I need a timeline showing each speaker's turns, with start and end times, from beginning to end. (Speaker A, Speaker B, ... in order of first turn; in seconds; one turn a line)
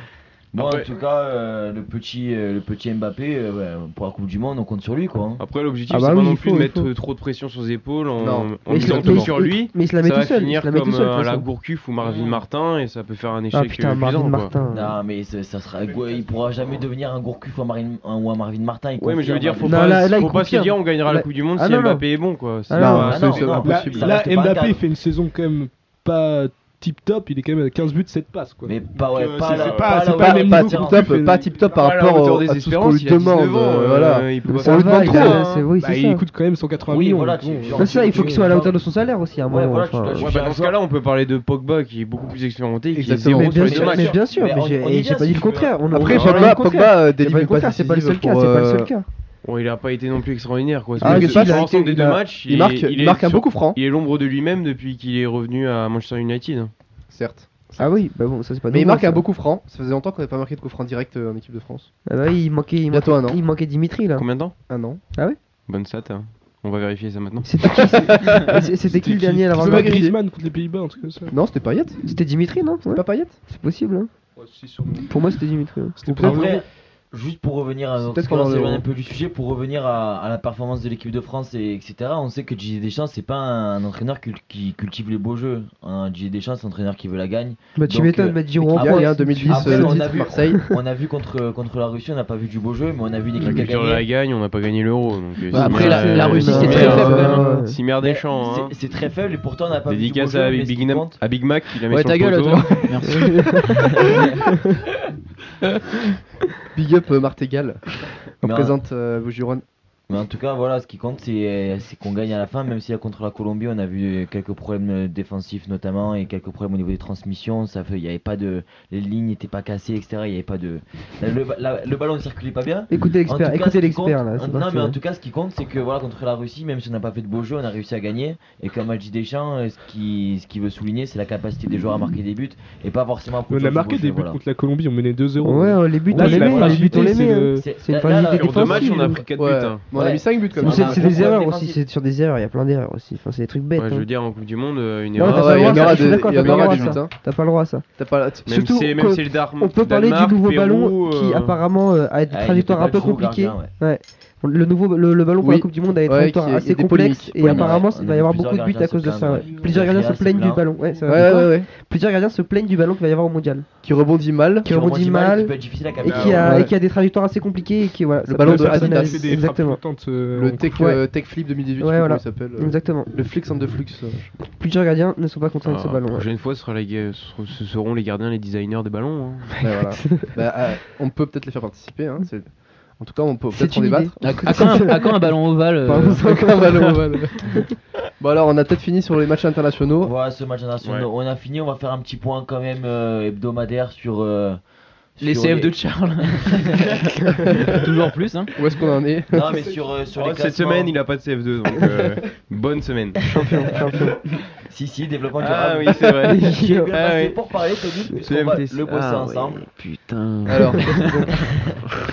Speaker A: 0.5-5.4
Speaker B: 0.6-0.9
Speaker B: 5.4-14.5
Speaker C: 5.9-6.9
Speaker D: 8.2-9.3
Speaker C: 8.7-11.5
Speaker C: 13.5-14.9
Speaker A: 14.7-20.0
Speaker B: 19.0-24.1
Speaker C: 19.6-22.1
Speaker C: 22.6-23.2
Speaker D: 22.7-24.0
Speaker A: 22.9-24.8
Speaker E: 23.6-31.8
Speaker A: 28.6-31.1
Speaker B: 29.1-30.1
Speaker D: 30.1-35.4
Speaker B: 31.7-35.7
Speaker C: 34.5-36.2
Speaker E: 35.0-38.5
Speaker A: 36.9-38.8
Speaker C: 37.8-40.3
Speaker A: 39.4-40.8
Speaker B: 40.1-44.2
Speaker D: 42.9-43.6
Speaker C: 43.3-49.0
Speaker A: 43.6-46.1
Speaker D: 45.9-48.9
Speaker B: 45.9-46.6
Speaker B: 49.4-56.7
Speaker C: 51.0-51.7
Speaker D: 51.0-53.8
Speaker D: 57.1-58.0
Speaker C: 57.8-59.2
Speaker D: 58.7-61.9
Speaker C: 62.0-64.3
Speaker D: 62.9-63.4
Speaker B: 64.1-64.5
Speaker D: 64.7-65.0
Speaker B: 65.7-67.5
Speaker C: 67.4-70.0
Speaker D: 68.1-68.6
Speaker E: 68.8-71.3
Speaker D: 69.5-70.2
Speaker D: 71.3-72.0
Speaker C: 72.0-74.1
Speaker D: 72.8-73.3
Speaker E: 74.3-75.2
Speaker C: 75.1-76.5
Speaker E: 76.0-76.6
Speaker A: 76.2-94.0
Speaker D: 78.0-78.8
Speaker C: 78.5-78.7
Speaker C: 87.8-90.6
Speaker D: 88.6-90.6
Speaker B: 93.4-98.7
Speaker F: 95.5-97.4
Speaker C: 95.5-97.8
Speaker D: 96.6-97.6
Speaker A: 96.6-97.0
Speaker A: 98.0-101.2
Speaker B: 99.9-102.9
Speaker F: 101.9-103.5
Speaker D: 102.7-103.0
Speaker C: 103.1-103.8
Speaker A: 104.0-104.3
Speaker D: 106.7-109.6
Speaker A: 108.4-108.7
Speaker A: 110.1-134.4
Speaker C: 122.9-125.0
Speaker E: 133.5-137.7
Speaker C: 135.4-139.2
Speaker A: 136.1-139.2
Speaker B: 138.1-139.8
Speaker D: 139.3-141.3
Speaker A: 139.9-141.8
Speaker C: 140.6-144.1
Speaker B: 143.8-147.0
Speaker C: 145.1-147.8
Speaker D: 145.2-147.3
Speaker D: 147.9-148.5
Speaker C: 148.4-163.7
Speaker B: 148.4-151.6
Speaker A: 152.3-153.7
Speaker D: 155.4-157.8
Speaker A: 157.4-160.7
Speaker E: 160.8-161.2
Speaker D: 161.1-161.7
Speaker D: 163.8-164.7
Speaker A: 164.6-166.7
Speaker C: 164.6-169.8
Speaker E: 166.0-166.3
Speaker D: 166.4-166.7
Speaker D: 168.3-169.3
Speaker E: 168.4-170.7
Speaker D: 170.3-174.3
Speaker C: 170.7-171.0
Speaker C: 171.8-173.1
Speaker C: 174.5-176.3
Speaker B: 175.6-179.6
Speaker D: 179.6-185.0
Speaker C: 179.7-180.3
Speaker C: 183.5-187.6
Speaker F: 184.2-186.2
Speaker D: 185.9-187.6
Speaker D: 188.2-190.1
Speaker A: 190.0-194.6
Speaker B: 190.8-191.1
Speaker A: 195.2-195.8
Speaker F: 195.2-197.0
Speaker F: 197.5-198.5
Speaker D: 198.5-199.5
Speaker A: 199.3-201.0
Speaker E: 199.5-199.8
Speaker B: 200.1-203.3
Speaker C: 203.3-204.2
Speaker A: 204.6-209.7
Speaker B: 205.4-207.3
Speaker C: 206.2-206.9
Speaker B: 208.2-211.0
Speaker D: 210.5-211.2
Speaker A: 211.3-211.7